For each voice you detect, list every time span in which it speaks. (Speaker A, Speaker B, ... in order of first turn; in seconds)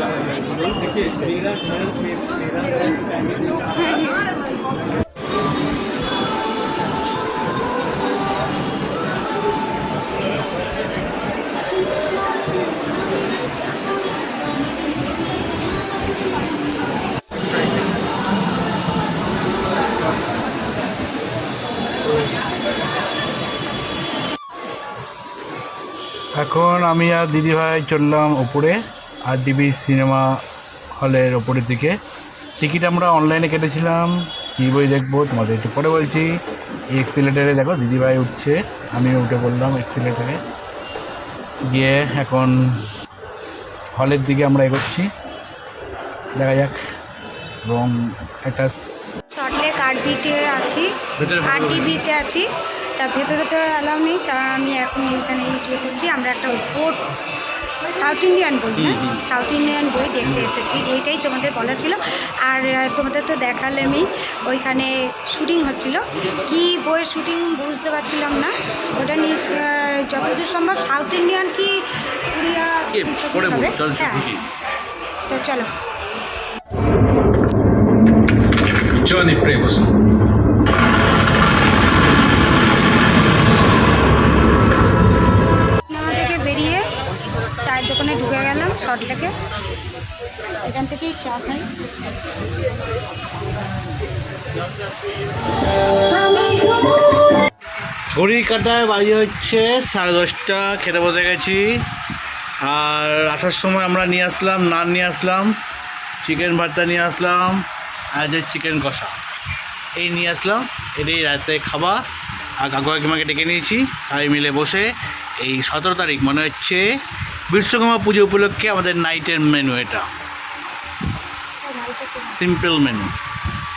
Speaker A: 26.4-30.4, 31.0-32.0, 32.6-36.4, 37.0-40.4, 41.7-42.5, 44.0-45.1, 46.4-46.8, 47.6-48.7, 51.2-52.0, 58.8-59.3, 72.9-74.5, 78.9-79.9, 98.1-101.8, 102.6-105.5, 106.2-109.2, 110.0-112.0, 112.6-116.8, 117.5-120.1, 122.4-123.1
Speaker B: 49.3-50.9, 51.4-57.0, 57.8-74.2, 75.3-75.7, 85.9-86.9, 87.6-89.3, 90.6-91.7, 96.1-97.2, 121.6-122.4